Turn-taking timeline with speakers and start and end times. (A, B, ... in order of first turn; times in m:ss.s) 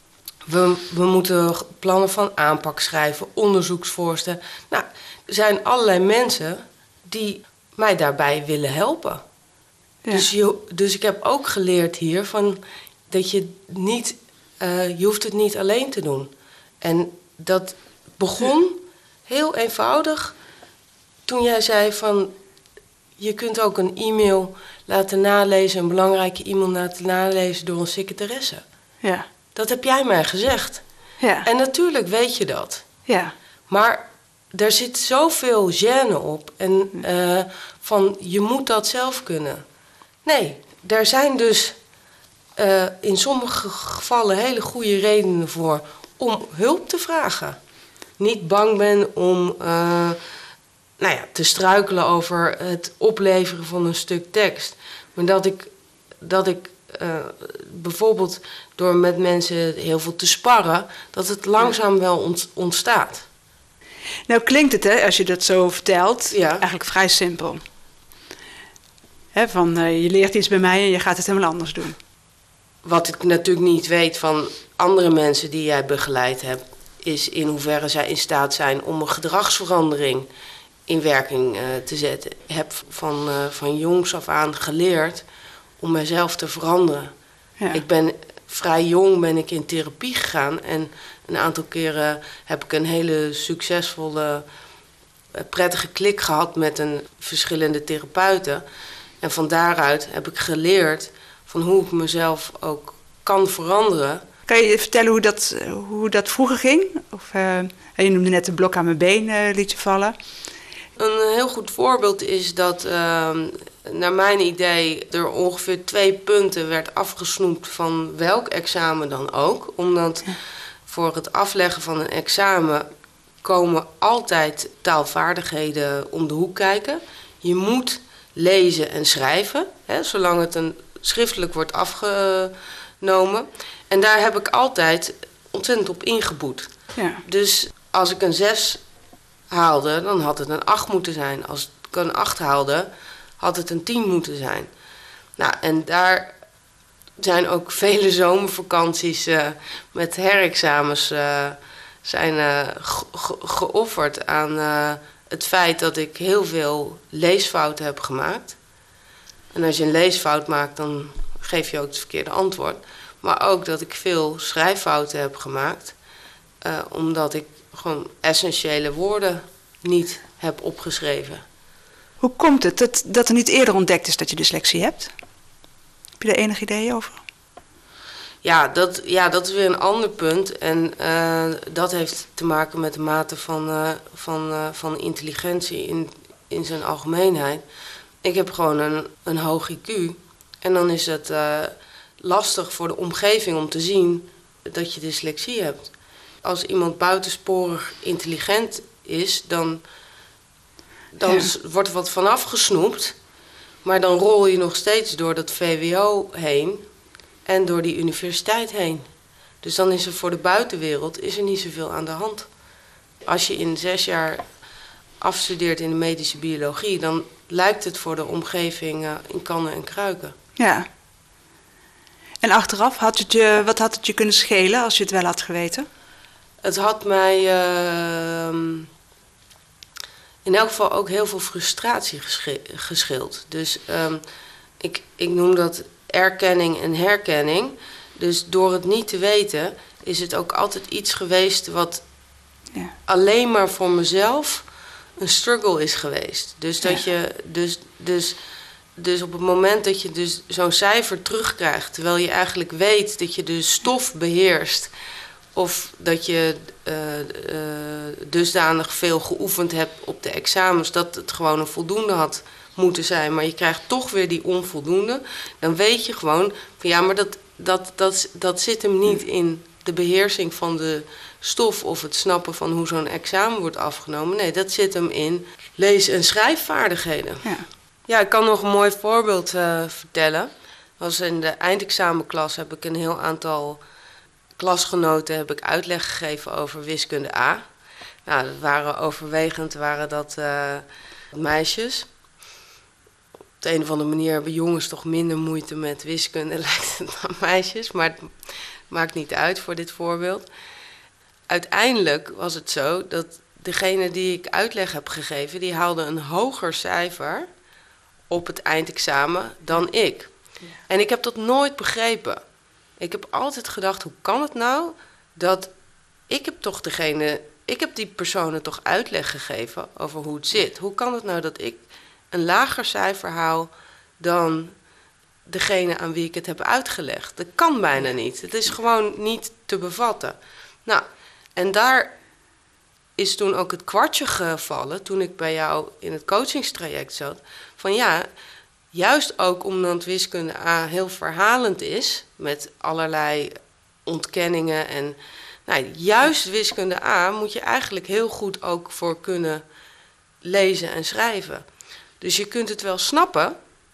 0:00.4-0:09.2 A
0:10.0-0:10.3 B
0:10.1-0:20.3 A
0:21.3-0:22.3 A
0:23.2-0:28.6 A
0:29.0-0:29.3 B
0:29.5-0:30.8 A
0:31.2-0:31.5 B
0:31.4-0:32.8 A
0:33.0-0:33.3 B
0:33.7-0:39.6 A
0:40.2-0:41.8 A
0:42.6-0:47.6 A
0:48.2-0:50.2 A
0:51.0-0:55.7 A
0:56.2-1:03.2 A
1:04.3-1:07.6 B
1:06.3-1:06.6 A
1:09.3-1:12.0 B
1:12.8-1:20.3 A
1:20.9-1:25.2 A
1:25.8-1:27.1 A
1:27.7-1:34.4 A
1:35.3-1:38.6 A
1:39.2-1:44.2 A
1:44.5-1:50.2 B
1:51.0-2:00.3 A
2:00.9-2:02.8 A
2:03.4-2:16.7 A
2:17.0-2:17.2 B
2:17.2-2:18.8 A
2:19.5-2:24.7 A
2:25.4-2:26.3 A
2:27.2-2:38.6 A
2:39.5-2:45.9 A
2:46.6-2:51.4 A
2:52.2-2:55.1 B
2:56.2-2:57.2 B
2:58.4-3:07.6 A
3:08.2-3:15.9 A
3:16.4-3:19.8 A
3:21.1-3:23.1 A
3:23.8-3:26.8 A
3:27.4-3:29.1 A
3:29.6-3:32.5 A
3:33.2-3:34.4 A
3:35.2-3:40.3 A
3:40.6-3:40.9 B
3:42.4-3:45.9 B
3:46.6-3:48.9 A
3:50.4-3:54.2 A
3:54.8-4:02.0 A
4:03.0-4:04.7 A
4:05.2-4:08.4 A
4:09.0-4:14.9 A
4:15.5-4:37.5 A
4:38.1-4:43.8 A
4:44.6-4:47.6 A
4:48.2-4:52.1 A
4:53.6-5:00.4 A
5:01.5-5:07.5 A
5:08.3-5:10.3 A
5:10.9-5:12.4 A
5:13.0-5:15.7 A
5:16.3-5:24.7 A
5:25.5-5:31.0 A
5:31.6-5:32.1 A
5:33.2-5:38.3 A
5:38.9-5:49.6 A
5:50.4-5:51.6 A
5:52.2-5:53.6 A